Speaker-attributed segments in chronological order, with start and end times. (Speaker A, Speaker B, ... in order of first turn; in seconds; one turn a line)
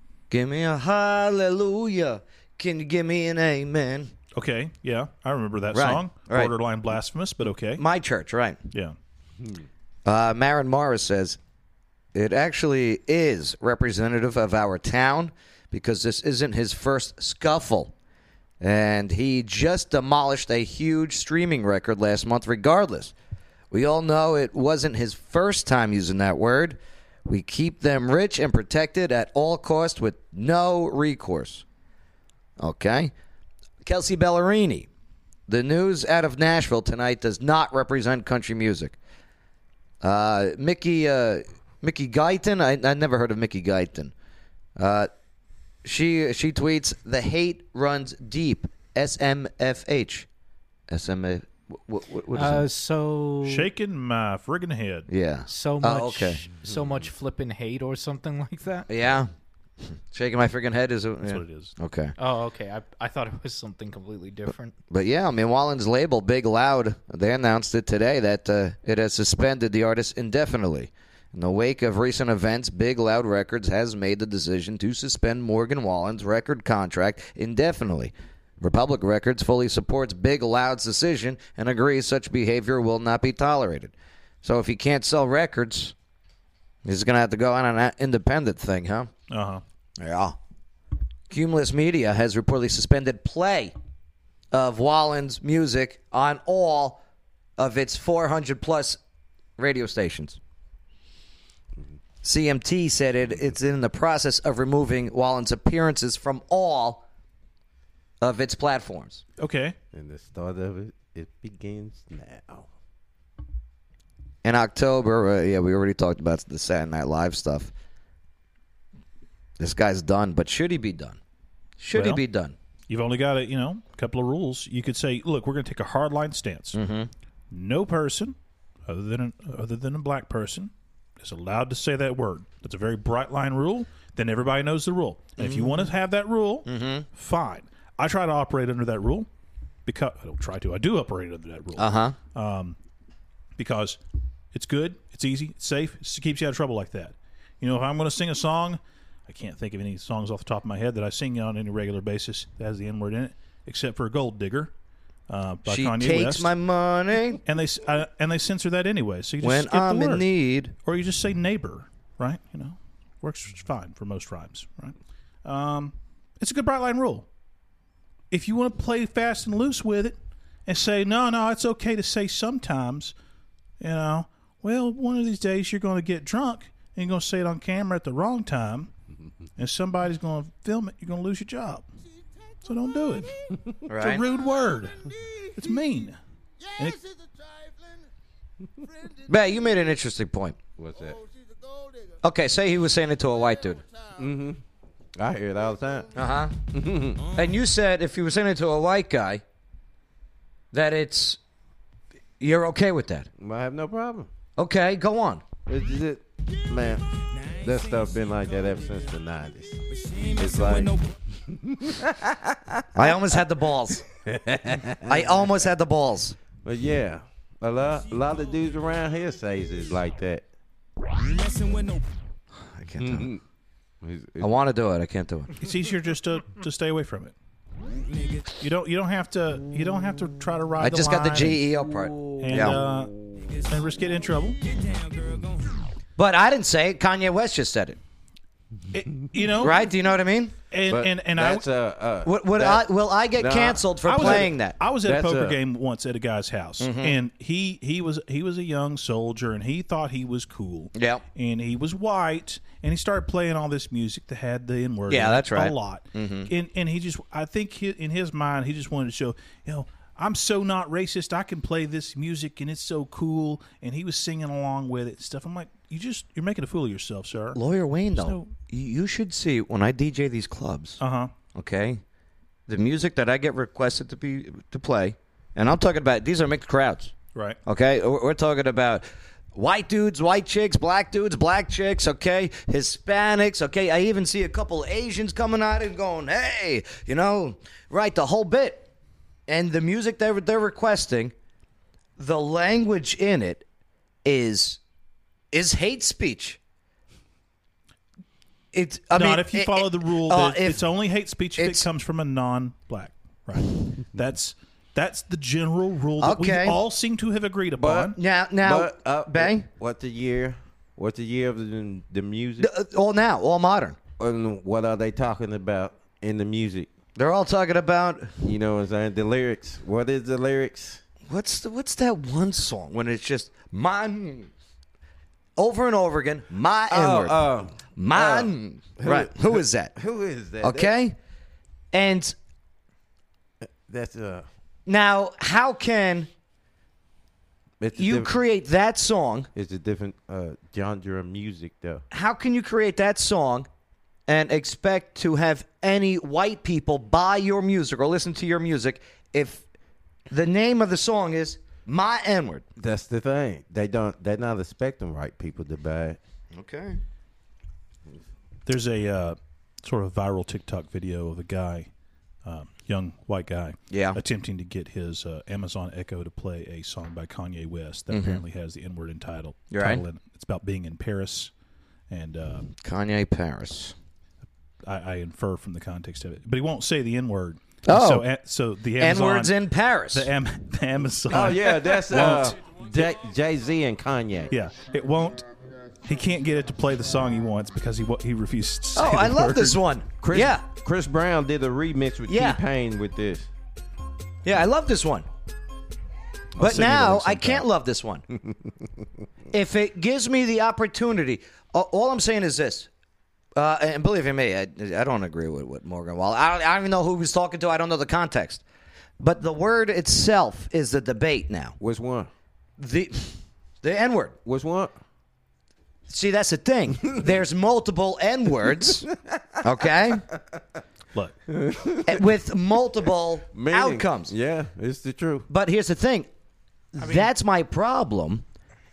Speaker A: 0.3-4.1
Speaker B: 4.3-7.8
Speaker A: 5.7-6.5
Speaker A: 7.8-8.6
Speaker A: 10.0-11.4
Speaker A: 12.1-17.9
Speaker A: 18.6-23.1
Speaker A: 23.7-31.6
Speaker A: 32.6-33.1
Speaker A: 33.8-34.9
Speaker A: 35.5-39.0
Speaker A: 40.0-44.1
Speaker A: 44.8-45.1
Speaker A: 45.8-50.3
Speaker A: 50.9-52.7
Speaker C: 52.3-53.7
Speaker B: 53.4-55.1
Speaker A: 55.1-56.4
Speaker C: 55.5-58.9
Speaker A: 58.9-59.3
Speaker A: 59.8-62.1
Speaker B: 61.2-61.7
Speaker C: 62.2-64.7
Speaker A: 64.9-85.9
Speaker A: 86.8-89.1
Speaker B: 89.3-89.6
Speaker A: 90.0-90.4
Speaker A: 91.3-93.7
Speaker A: 94.5-97.0
Speaker A: 97.6-99.0
Speaker A: 99.6-100.4
Speaker A: 102.2-107.0
Speaker A: 108.2-109.2
Speaker B: 109.4-109.8
Speaker D: 109.9-112.7
Speaker A: 114.4-117.7
Speaker A: 119.6-121.2
Speaker A: 121.8-122.5
Speaker B: 121.9-122.2
Speaker B: 122.9-126.8
Speaker A: 126.7-127.1
Speaker B: 127.5-128.3
Speaker B: 128.9-139.3
Speaker A: 135.4-135.9
Speaker A: 136.7-137.1
Speaker B: 139.8-142.8
Speaker A: 141.8-142.2
Speaker B: 143.6-144.0
Speaker B: 144.5-154.7
Speaker B: 155.3-156.5
Speaker A: 155.7-157.4
Speaker B: 157.4-160.2
Speaker A: 159.4-160.7
Speaker B: 160.8-167.2
Speaker B: 168.3-173.1
Speaker B: 173.8-178.9
Speaker B: 179.6-181.9
Speaker B: 182.6-183.3
Speaker A: 183.9-184.2
Speaker B: 183.9-186.2
Speaker B: 186.8-187.0
Speaker A: 189.2-190.6
Speaker D: 190.8-191.2
Speaker A: 192.2-193.8
Speaker D: 194.2-194.6
Speaker D: 195.2-196.1
Speaker A: 196.1-196.5
Speaker D: 196.7-197.3
Speaker A: 197.3-199.4
Speaker A: 200.7-201.4
Speaker A: 202.4-203.3
Speaker D: 203.4-204.3
Speaker A: 204.6-205.4
Speaker D: 205.7-213.1
Speaker A: 212.9-214.0
Speaker D: 214.2-215.3
Speaker A: 215.1-216.4
Speaker D: 216.6-220.4
Speaker A: 222.6-223.3
Speaker D: 223.0-223.4
Speaker D: 224.0-224.5
Speaker A: 224.4-225.5
Speaker B: 225.6-227.3
Speaker B: 228.6-231.6
Speaker A: 230.8-232.8
Speaker B: 232.4-234.7
Speaker A: 236.2-238.0
Speaker B: 238.9-239.8
Speaker A: 239.6-240.6
Speaker B: 240.7-241.7
Speaker D: 240.9-242.8
Speaker A: 242.2-244.8
Speaker D: 243.4-244.5
Speaker B: 244.0-267.6
Speaker D: 245.0-245.6
Speaker A: 246.8-247.2
Speaker A: 250.9-251.2
Speaker A: 255.1-256.5
Speaker A: 267.5-271.0
Speaker B: 268.1-268.5
Speaker B: 271.0-271.3
Speaker A: 271.5-272.0
Speaker A: 272.7-277.1
Speaker B: 277.3-277.6
Speaker A: 277.6-288.9
Speaker A: 289.5-291.3
Speaker A: 292.2-293.6
Speaker A: 294.2-294.8
Speaker A: 295.5-296.6
Speaker A: 298.7-300.9
Speaker B: 299.1-308.1
Speaker A: 301.6-301.9
Speaker A: 306.2-306.8
Speaker D: 307.8-312.7
Speaker A: 308.1-309.7
Speaker A: 312.6-314.0
Speaker D: 314.2-316.9
Speaker A: 317.1-318.4
Speaker D: 318.4-321.0
Speaker A: 321.3-324.5
Speaker A: 325.6-327.4
Speaker D: 326.9-330.9
Speaker A: 327.9-329.9
Speaker A: 330.6-331.1
Speaker A: 331.9-332.4
Speaker D: 333.6-334.5
Speaker A: 334.9-336.3
Speaker D: 337.8-338.3
Speaker A: 337.9-339.5
Speaker D: 339.5-342.0
Speaker A: 342.1-343.7
Speaker A: 344.3-349.6
Speaker A: 350.3-352.6
Speaker D: 352.8-356.2
Speaker A: 356.5-357.0
Speaker B: 358.6-361.9
Speaker B: 362.4-371.5
Speaker A: 363.9-364.2
Speaker A: 368.1-368.4
Speaker A: 369.7-370.0
Speaker B: 372.1-372.7
Speaker A: 372.8-373.9
Speaker B: 374.8-379.5
Speaker A: 377.9-378.2
Speaker A: 379.0-380.3
Speaker B: 380.1-382.6
Speaker D: 381.3-384.5
Speaker B: 384.5-385.5
Speaker B: 386.0-389.8
Speaker A: 388.9-390.6
Speaker D: 390.2-393.5
Speaker A: 392.3-392.6
Speaker A: 394.4-395.3
Speaker A: 396.6-398.2
Speaker B: 396.6-397.6
Speaker A: 399.5-402.9
Speaker A: 403.5-408.6
Speaker A: 409.2-411.8
Speaker D: 411.8-412.3
Speaker A: 412.8-414.4
Speaker D: 414.4-414.9
Speaker A: 416.1-419.1
Speaker A: 419.6-420.2
Speaker D: 421.5-422.2
Speaker A: 422.0-424.3
Speaker D: 423.5-425.5
Speaker A: 425.5-426.3
Speaker A: 426.9-428.4